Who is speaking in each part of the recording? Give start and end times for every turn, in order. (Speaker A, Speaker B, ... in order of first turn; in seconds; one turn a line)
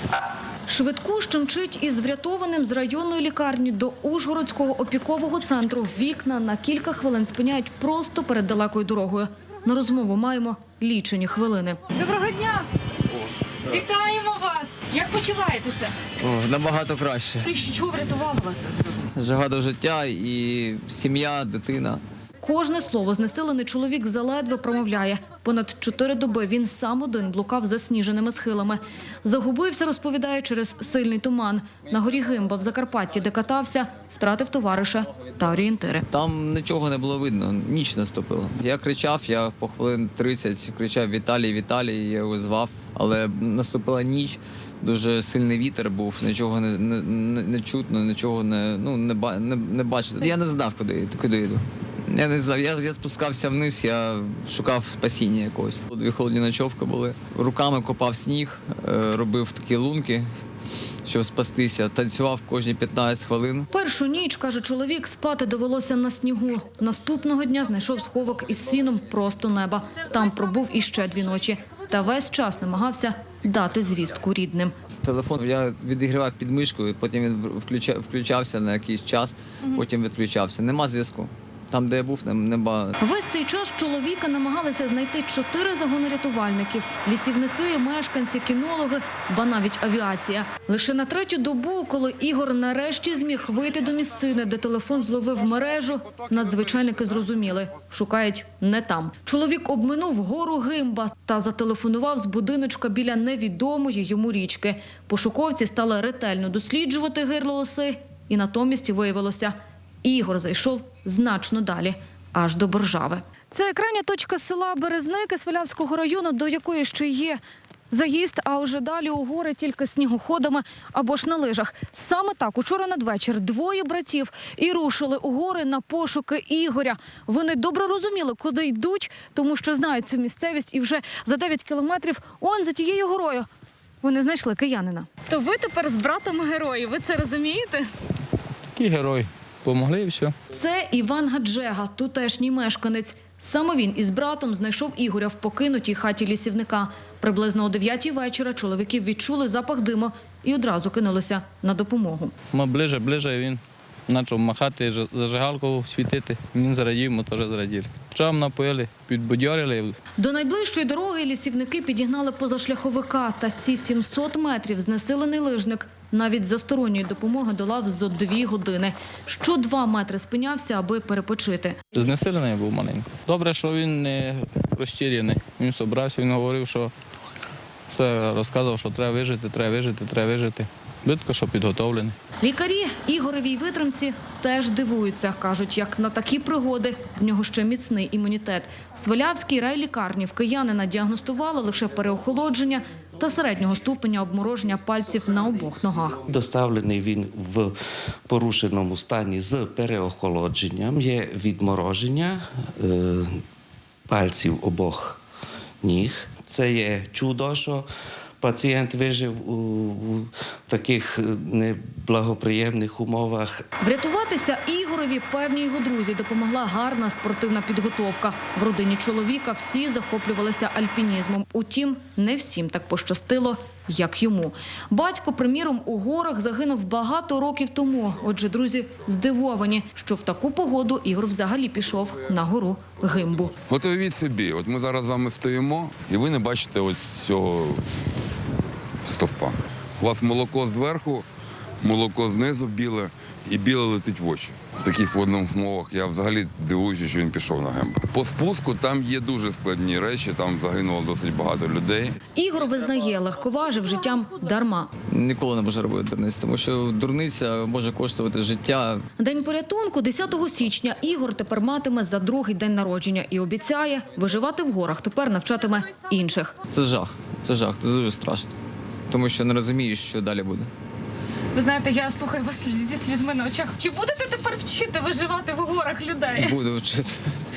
Speaker A: 0.7-11.8
Speaker B: 11.9-12.7
Speaker B: 13.7-16.1
Speaker C: 16.2-17.5
Speaker B: 17.4-18.9
Speaker C: 19.1-22.0
Speaker A: 22.4-36.1
Speaker C: 36.1-60.2
Speaker C: 61.0-63.7
Speaker A: 63.7-74.7
Speaker C: 75.0-82.9
Speaker A: 83.0-133.5
Speaker A: 134.0-137.8
Speaker B: 135.3-137.8
Speaker D: 138.8-140.3
Speaker A: 140.5-152.3
Speaker D: 152.5-159.9
Speaker A: 160.2-171.8
Speaker D: 171.9-176.9
Speaker D: 177.9-182.1
Speaker A: 182.4-196.2
Speaker E: 196.3-197.7
Speaker E: 198.3-203.4
Speaker E: 204.1-205.2
Speaker E: 205.8-207.9
Speaker E: 208.4-213.7
Speaker A: 213.8-233.5
Speaker F: 233.7-237.8
Speaker F: 239.0-241.2
Speaker F: 241.8-252.1
Speaker A: 252.3-254.9
Speaker C: 255.1-259.0
Speaker A: 259.2-266.6
Speaker C: 266.7-268.5
Speaker C: 269.1-270.7
Speaker B: 271.5-276.6
Speaker C: 276.4-277.2